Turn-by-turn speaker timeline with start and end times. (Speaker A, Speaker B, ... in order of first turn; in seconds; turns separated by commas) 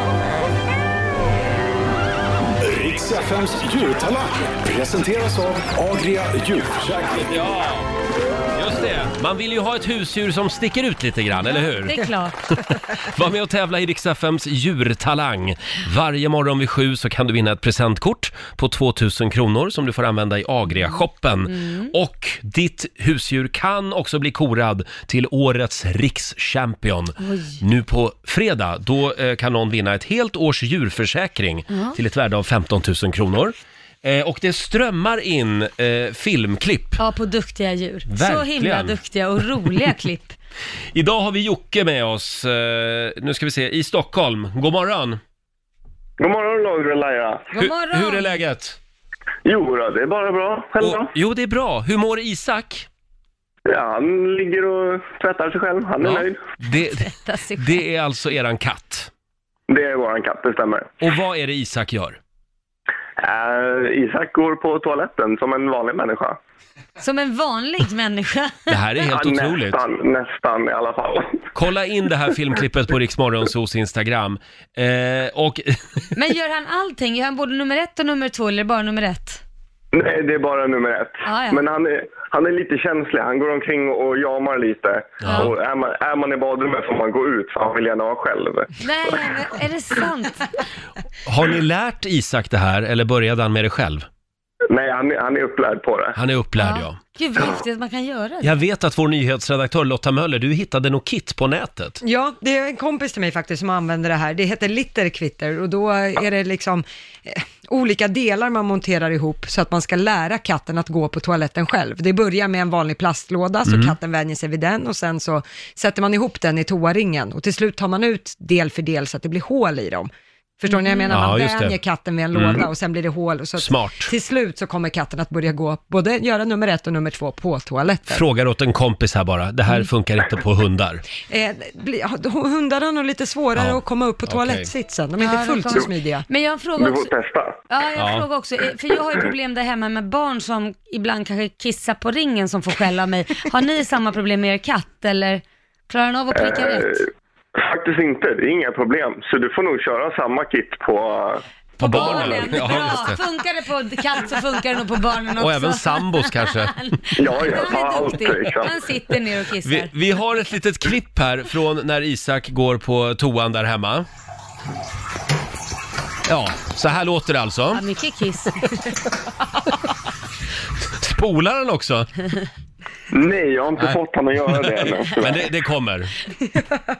Speaker A: 2.6-7.3, Speaker B: 7.2-7.9, Speaker B: 8.5-12.0, Speaker C: 11.3-12.6, Speaker B: 12.9-37.0, Speaker C: 21.5-21.9, Speaker C: 27.2-27.6, Speaker C: 31.7-32.0, Speaker C: 37.0-40.4, Speaker B: 38.1-39.0, Speaker B: 40.9-45.2, Speaker D: 46.2-47.5, Speaker C: 47.5-48.4, Speaker B: 47.5-48.8, Speaker D: 49.4-51.1, Speaker B: 50.8-52.9, Speaker D: 53.6-56.4, Speaker B: 56.0-59.1, Speaker C: 57.0-57.8, Speaker D: 59.7-60.9, Speaker B: 61.0-62.2, Speaker D: 63.2-66.4, Speaker C: 67.0-68.7, Speaker B: 68.7-69.8, Speaker D: 69.0-71.5, Speaker B: 71.5-76.0, Speaker C: 76.1-79.4, Speaker D: 79.9-89.3, Speaker C: 81.2-81.6, Speaker B: 85.2-85.5, Speaker C: 88.8-90.6, Speaker B: 91.2-94.0, Speaker D: 94.7-96.2, Speaker B: 96.1-97.0, Speaker C: 96.6-98.6, Speaker B: 98.4-102.0, Speaker E: 102.0-128.2, Speaker B: 113.7-113.9, Speaker C: 120.7-121.2, Speaker B: 121.1-121.8, Speaker B: 122.3-122.7, Speaker B: 123.6-124.1, Speaker B: 128.1-131.0, Speaker E: 131.3-136.2, Speaker B: 133.6-134.7, Speaker C: 135.2-137.1, Speaker D: 136.8-137.6, Speaker C: 137.7-147.0, Speaker B: 138.0-138.2, Speaker D: 146.3-151.4, Speaker B: 151.8-153.2, Speaker C: 151.8-159.9, Speaker D: 152.0-152.3, Speaker B: 155.4-156.7, Speaker D: 157.2-158.7, Speaker B: 159.6-164.1, Speaker B: 166.2-167.8, Speaker C: 167.7-168.7, Speaker B: 170.9-172.1, Speaker D: 173.1-175.5, Speaker B: 174.6-176.1